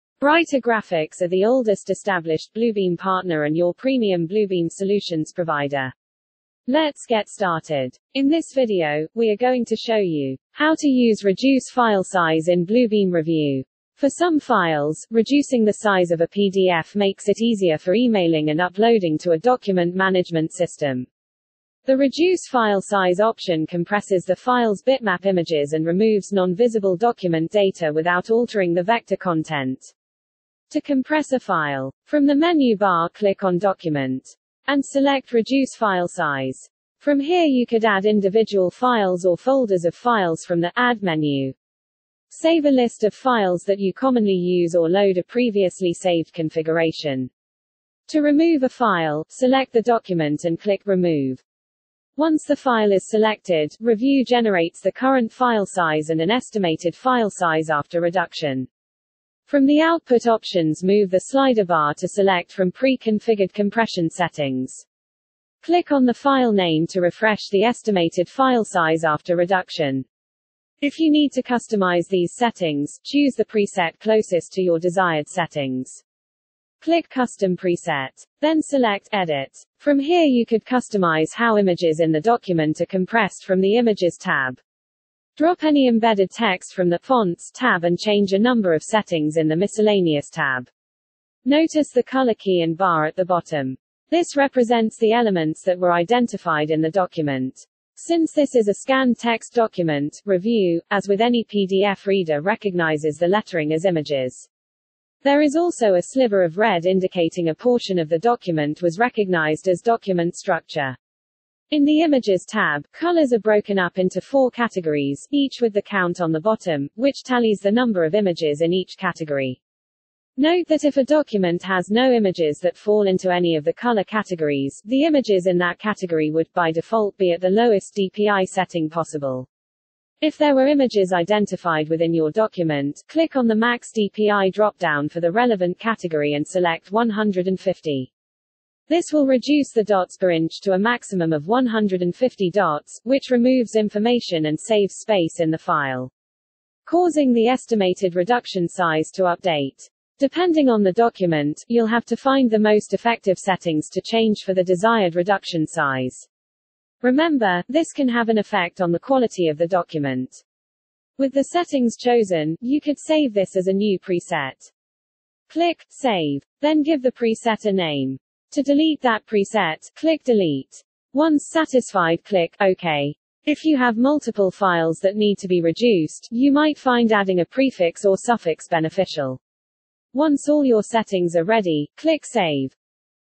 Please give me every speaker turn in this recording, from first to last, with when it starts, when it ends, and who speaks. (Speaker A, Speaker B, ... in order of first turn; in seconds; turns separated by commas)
Speaker A: 0.2-5.9, Speaker A: 6.7-21.1, Speaker A: 21.9-29.9, Speaker A: 30.7-41.5, Speaker A: 42.3-47.3, Speaker A: 48.1-51.4, Speaker A: 52.2-58.7, Speaker A: 59.5-64.8, Speaker A: 65.6-70.1, Speaker A: 70.8-76.0, Speaker A: 76.8-84.6, Speaker A: 85.4-90.7, Speaker A: 91.5-104.5, Speaker A: 105.2-111.0, Speaker A: 111.7-119.6, Speaker A: 120.4-129.5, Speaker A: 130.2-138.1, Speaker A: 138.9-146.1, Speaker A: 146.9-156.3, Speaker A: 157.0-160.4, Speaker A: 161.2-164.7, Speaker A: 165.5-179.4, Speaker A: 180.1-182.8